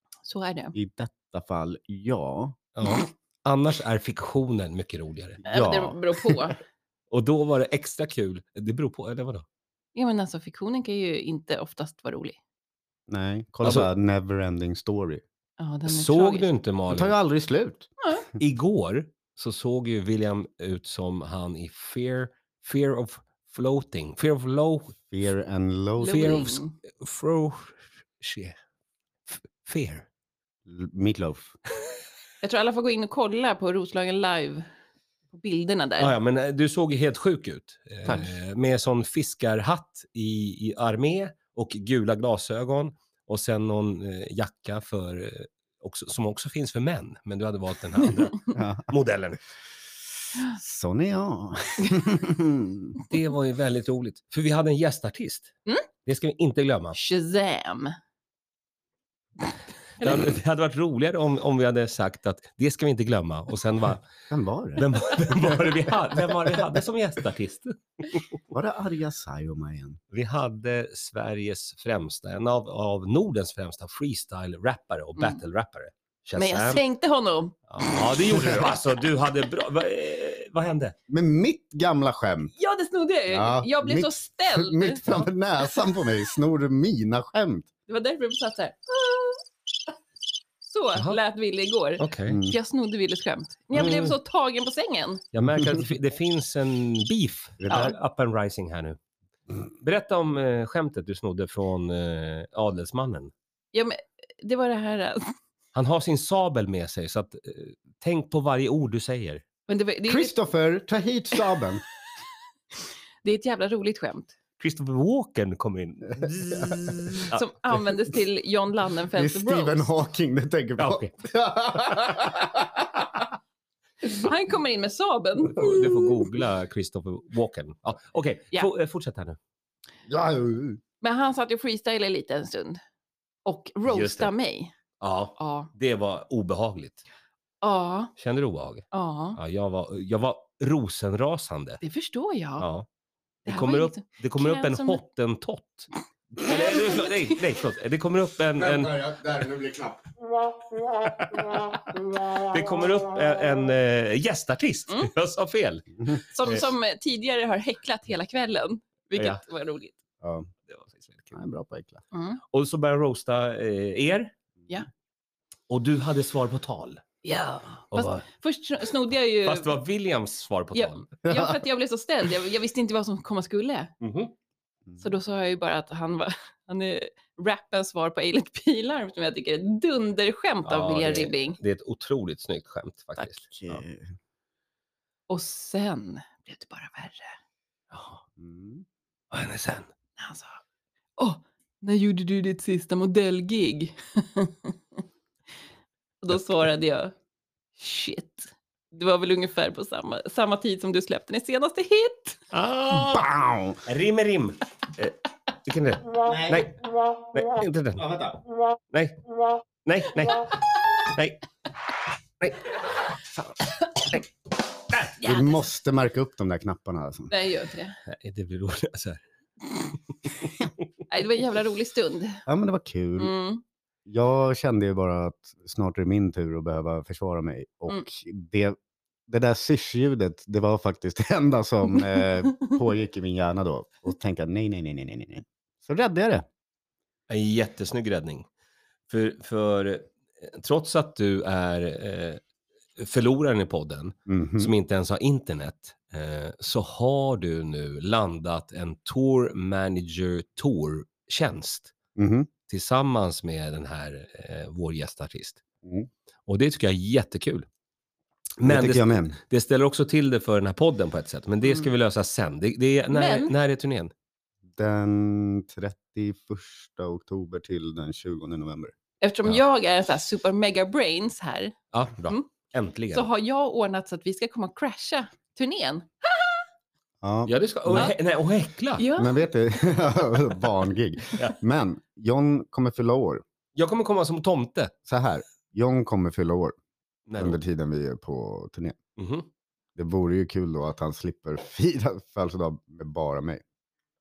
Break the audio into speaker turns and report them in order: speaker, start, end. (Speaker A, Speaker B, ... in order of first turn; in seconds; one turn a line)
Speaker A: 0.3-0.7
Speaker B: 0.7-2.6
Speaker C: 2.8-5.4
Speaker B: 5.4-6.3
Speaker A: 5.5-6.6
Speaker C: 7.1-9.4
Speaker A: 9.9-12.4
Speaker B: 13.1-15.2
Speaker C: 13.6-13.9
Speaker A: 15.6-16.5
Speaker C: 15.9-17.1
Speaker B: 16.9-17.9
Speaker A: 18.0-18.3
Speaker C: 18.4-25.0
Speaker B: 25.1-26.5
Speaker A: 26.0-26.8
Speaker C: 26.1-28.6
Speaker C: 29.3-30.1
Speaker B: 30.7-31.6
Speaker A: 32.4-34.7
Speaker A: 35.3-36.2
Speaker C: 36.0-49.4
Speaker B: 48.5-48.9
Speaker B: 50.5-53.0
Speaker C: 53.0-55.5
Speaker C: 56.0-57.0
Speaker A: 56.9-58.0
Speaker A: 60.0-60.3
Speaker C: 60.0-64.0
Speaker B: 64.3-65.7
Speaker C: 64.8-68.3
Speaker B: 68.5-70.0
Speaker C: 70.1-76.8
Speaker A: 76.4-77.6
Speaker C: 77.7-81.0
Speaker B: 78.3-78.6
Speaker B: 81.1-82.5
Speaker A: 82.6-85.8
Speaker B: 83.3-87.7
Speaker A: 87.9-89.5
Speaker A: 90.6-95.2
Speaker C: 92.0-92.4
Speaker B: 92.3-92.6
Speaker C: 93.7-94.2
Speaker C: 95.3-99.0
Speaker B: 97.6-97.9
Speaker C: 99.8-103.3
Speaker A: 103.7-105.3
Speaker C: 105.7-109.4
Speaker A: 109.7-110.3
Speaker B: 110.1-111.8
Speaker A: 113.2-114.3
Speaker C: 114.6-117.4
Speaker A: 117.3-119.9
Speaker B: 119.1-123.1
Speaker C: 120.8-121.1
Speaker A: 124.0-126.2
Speaker C: 125.5-129.4
Speaker B: 130.1-130.8
Speaker A: 131.0-132.8
Speaker A: 133.4-134.7
Speaker C: 133.9-134.3
Speaker C: 135.0-137.0
Speaker A: 135.4-135.7
Speaker A: 137.6-138.1
Speaker C: 138.2-141.8
Speaker A: 138.9-139.4
Speaker A: 141.8-142.7
Speaker C: 142.6-142.9
Speaker C: 143.5-145.9
Speaker A: 143.5-145.0
Speaker C: 146.4-149.1
Speaker A: 146.4-147.4
Speaker B: 148.6-150.1
Speaker C: 151.0-155.9
Speaker A: 156.1-160.0
Speaker B: 160.2-160.5
Speaker C: 160.7-161.4
Speaker B: 161.3-162.0
Speaker A: 162.1-162.4
Speaker C: 162.5-164.3
Speaker C: 165.7-167.0
Speaker A: 167.2-169.7
Speaker C: 167.9-168.2
Speaker C: 169.5-171.1
Speaker A: 170.7-173.9
Speaker C: 174.0-174.3
Speaker A: 175.0-181.6
Speaker C: 180.7-183.8
Speaker B: 183.5-184.1
Speaker A: 185.3-187.3
Speaker C: 187.9-188.2
Speaker B: 188.4-188.8
Speaker C: 189.3-189.9
Speaker A: 190.2-190.6
Speaker A: 191.2-194.8
Speaker A: 196.2-197.2
Speaker A: 197.8-202.4
Speaker C: 202.5-208.2
Speaker B: 202.9-203.8
Speaker B: 206.2-206.7
Speaker B: 208.0-208.4
Speaker C: 208.9-209.2
Speaker C: 209.8-211.4
Speaker C: 212.4-212.7
Speaker A: 215.2-215.7
Speaker B: 215.2-217.3
Speaker A: 217.3-218.0
Speaker C: 218.1-219.2
Speaker A: 221.1-222.4
Speaker B: 222.5-223.3
Speaker A: 223.2-223.6
Speaker B: 224.1-228.8
Speaker B: 229.3-236.5
Speaker C: 237.3-238.5
Speaker C: 239.1-242.4
Speaker C: 243.0-251.9
Speaker B: 244.3-244.7
Speaker B: 252.2-252.5
Speaker C: 252.7-255.6
Speaker B: 255.8-256.1
Speaker C: 256.5-257.7
Speaker C: 258.6-264.1
Speaker B: 258.6-259.4
Speaker A: 263.1-263.5
Speaker B: 264.8-268.9
Speaker A: 269.2-271.8
Speaker C: 271.9-273.3
Speaker A: 273.1-276.6
Speaker B: 277.2-278.1
Speaker C: 277.5-279.1
Speaker A: 279.0-279.5
Speaker B: 279.2-283.4
Speaker C: 283.8-284.9
Speaker B: 285.1-286.8
Speaker C: 287.3-287.6
Speaker B: 287.4-289.0
Speaker C: 289.2-289.5
Speaker B: 290.0-293.6